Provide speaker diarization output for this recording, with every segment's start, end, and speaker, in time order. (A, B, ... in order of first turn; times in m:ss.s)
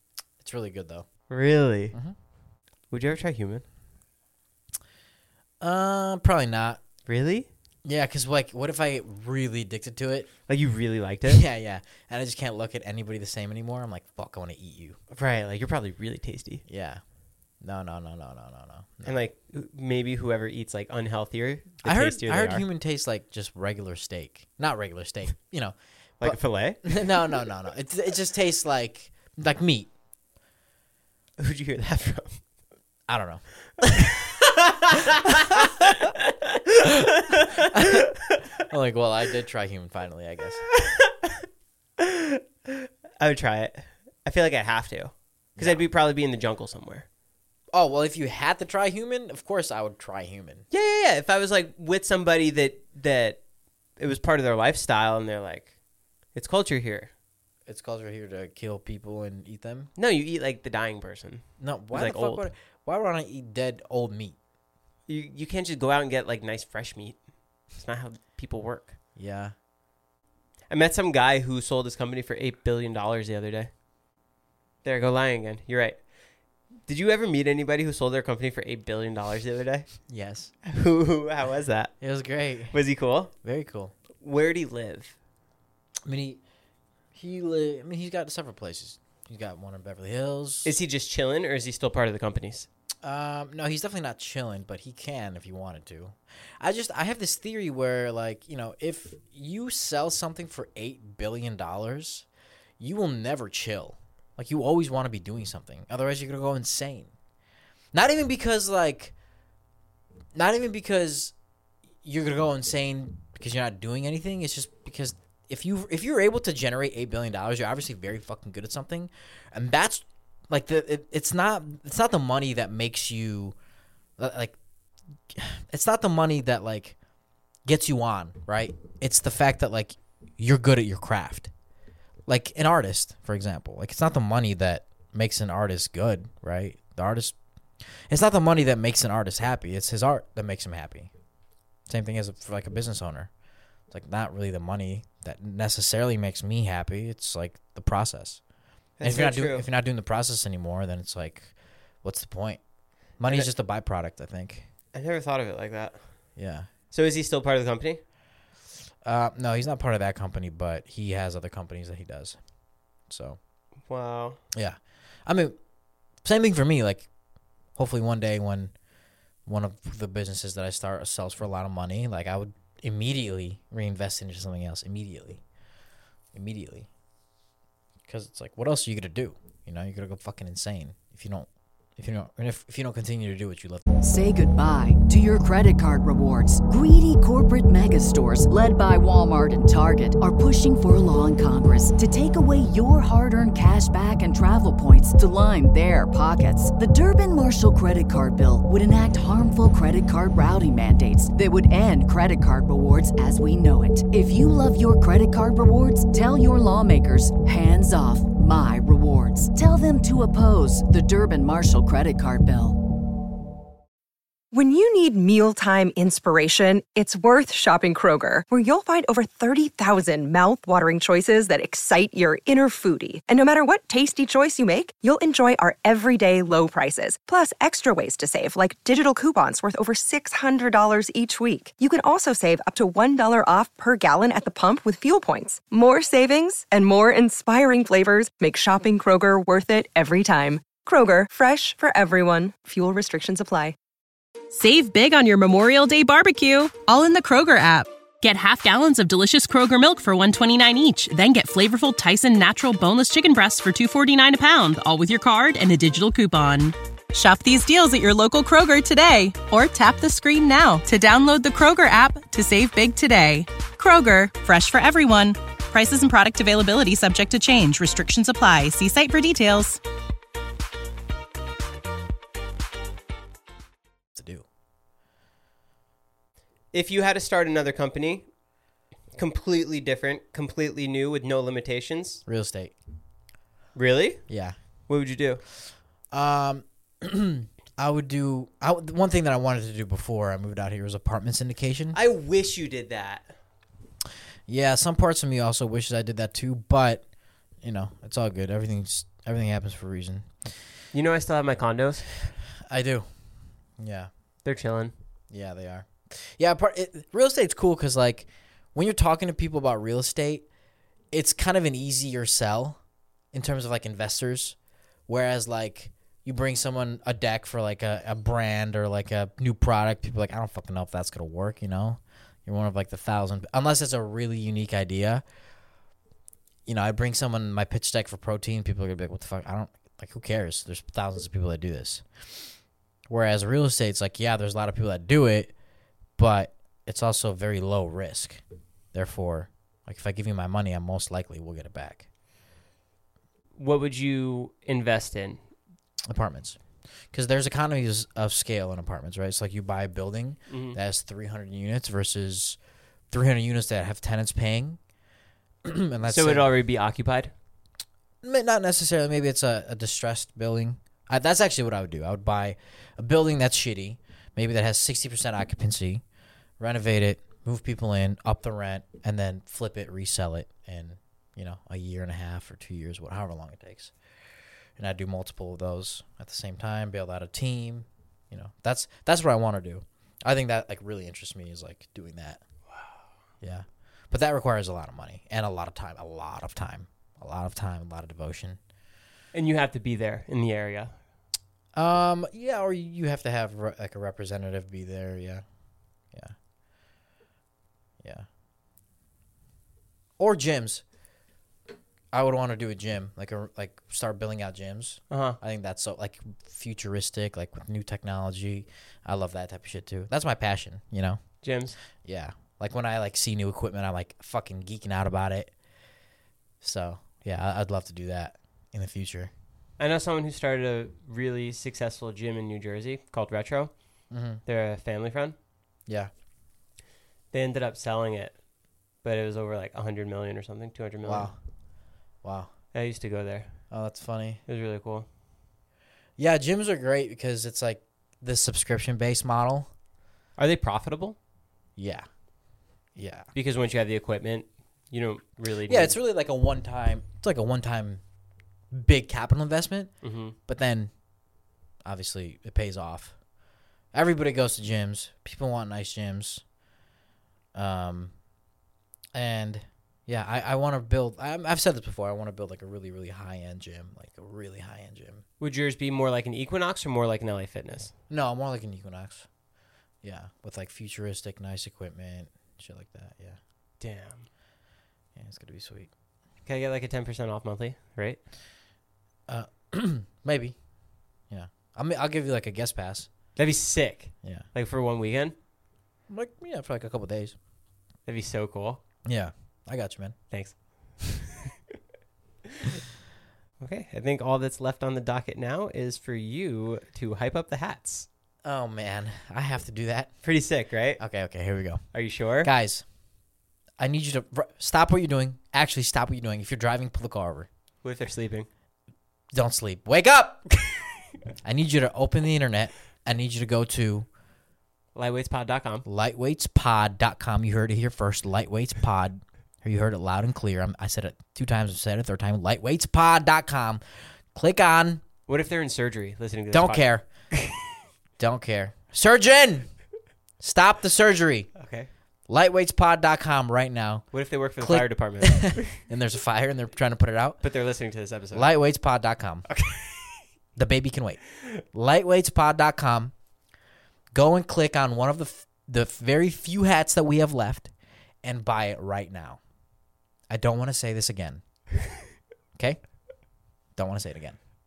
0:00.4-0:01.1 A
0:01.3-0:02.0 B
0:02.9-0:03.6 B
0:05.6-0:06.8 A
0:07.1-0:07.5 B
0:07.8-0:10.3 A
0:10.5-0:11.4 B
0:11.3-0:15.0 A
0:15.1-0:16.6 B
0:16.7-0:17.0 A
0:17.6-0:19.2 A
0:19.0-0:22.6 B
0:21.8-0:29.9 A
0:26.2-0:27.1 B
0:31.4-0:32.4 B
0:33.1-0:33.4 A
0:33.8-0:38.4 B
0:37.6-0:40.6 A
0:40.7-0:41.4 B
0:42.0-0:47.1 B
0:45.6-0:45.8 A
0:47.7-0:50.6 A
0:50.7-0:53.4 B
0:54.0-0:55.7 B
0:56.4-0:57.1 B
0:57.7-0:59.9 A
1:00.0-1:02.5 B
1:01.6-1:04.4 A
1:05.1-1:07.2 B
1:07.8-1:08.9 B
1:09.2-1:09.5 A
1:10.7-1:13.7 B
1:14.8-1:16.0 B
1:16.9-1:19.9 B
1:20.1-1:20.5 A
1:20.6-1:22.0 B
1:22.0-1:22.8 A
1:22.7-1:23.3 B
1:23.4-1:23.9 A
1:24.2-1:25.2 B
1:26.0-1:26.4 A
1:27.1-1:30.8 A
1:30.6-1:32.7 B
1:33.0-1:42.3 A
1:42.8-1:47.1 A
1:47.9-1:49.2 A
1:50.4-1:51.3 A
1:52.0-2:03.6 A
2:04.2-2:04.6 A
2:05.3-2:07.0 A
2:07.7-2:11.5 A
2:12.3-2:17.4 A
2:18.1-2:21.1 A
2:21.9-2:23.3 A
2:23.9-2:28.4 A
2:29.0-2:29.7 B
2:29.0-2:32.6 A
2:33.2-2:34.7 A
2:34.9-2:36.0 B
2:36.4-2:36.7 A
2:36.9-2:38.0 B
2:39.0-2:42.4 A
2:43.1-2:43.4 A
2:43.9-2:44.4 B
2:44.5-2:45.6 A
2:46.2-2:47.1 A
2:47.8-2:48.7 A
2:49.5-2:55.4 A
2:56.3-2:56.9 A
2:58.1-3:03.8 A
3:04.0-3:32.8 C
3:34.5-4:03.8 D
4:04.5-4:29.8 E
4:34.2-4:34.4 A
4:36.7-4:38.3 B
4:39.2-4:42.2 B
4:42.3-4:42.7 A
4:43.8-4:44.2 B
4:44.3-4:44.6 A
4:44.9-4:45.4 B
4:46.1-4:52.0 A
4:51.9-4:53.3 B
4:54.5-4:57.0 A
4:57.6-5:00.3 A
5:00.9-5:02.1 B
5:02.7-5:03.1 A
5:03.8-5:04.1 A
5:04.4-5:04.9 B
5:05.3-5:10.5 A
5:11.1-5:12.8 A
5:13.3-5:14.6 A
5:15.1-5:25.2 A
5:26.7-5:32.5 A
5:33.1-5:35.6 A
5:36.2-5:38.4 A
5:38.9-5:42.1 A
5:43.6-5:45.4 B
5:46.1-5:46.6 A
5:47.1-5:52.6 A
5:50.5-5:50.8 B
5:53.1-5:54.8 A
5:55.6-5:56.5 A
5:56.1-5:57.3 B
5:58.2-6:06.0 A
6:06.6-6:13.9 A
6:14.8-6:22.4 A
6:23.4-6:28.6 A
6:29.3-6:30.9 B
6:31.8-6:35.4 A
6:38.0-6:38.3 A
6:40.2-6:40.8 A
6:42.1-6:51.2 A
6:45.1-6:45.4 B
6:51.4-6:51.8 B
6:52.0-6:55.5 A
6:56.6-6:59.3 A
6:59.8-7:03.7 B
7:04.1-7:04.4 A
7:04.5-7:05.4 B
7:07.3-7:08.4 B
7:09.0-7:11.3 B
7:11.0-7:11.4 A
7:12.2-7:12.5 A
7:12.7-7:13.5 B
7:13.7-7:14.4 A
7:14.5-7:15.1 B
7:16.2-7:19.7 A
7:20.4-7:21.2 B
7:21.8-7:22.1 A
7:23.0-7:23.3 A
7:23.4-7:26.0 B
7:25.7-7:28.0 A
7:28.7-7:29.9 A
7:30.0-7:30.4 B
7:30.5-7:30.9 A
7:31.8-7:33.2 A
7:33.9-7:36.4 A
7:37.6-7:38.1 A
7:39.1-7:45.2 A
7:45.4-7:47.9 B
7:48.1-7:49.3 A
7:50.0-7:53.4 A
7:53.8-7:54.3 B
7:55.2-7:55.9 A
7:56.5-7:58.2 B
7:59.3-8:00.6 A
8:01.3-8:03.1 A
8:03.4-8:05.4 B
8:06.1-8:07.4 A
8:08.1-8:08.8 B
8:09.1-8:10.2 A
8:10.3-8:11.3 B
8:13.6-8:18.1 B
8:18.4-8:20.1 A
8:20.2-8:21.0 B
8:21.0-8:21.8 A
8:21.9-8:22.5 B
8:22.4-8:22.8 A
8:23.8-8:27.5 A
8:27.8-8:28.5 B
8:29.3-8:30.4 A
8:31.4-8:34.1 A
8:35.0-8:35.8 B
8:35.9-8:43.8 A
8:44.3-8:45.0 A
8:45.3-8:47.5 B
8:46.5-8:47.0 A
8:48.2-8:49.7 A
8:50.4-8:51.5 A
8:51.6-8:51.9 B
8:52.3-8:54.1 A
8:54.1-8:55.8 B
8:54.6-8:57.4 A
8:57.4-8:58.5 B
8:58.3-8:59.5 A
8:59.5-9:00.2 B
9:00.6-9:01.2 A
9:01.7-9:03.1 A
9:04.1-9:07.7 A
9:08.2-9:09.4 A
9:10.3-9:11.4 A
9:13.8-9:14.4 A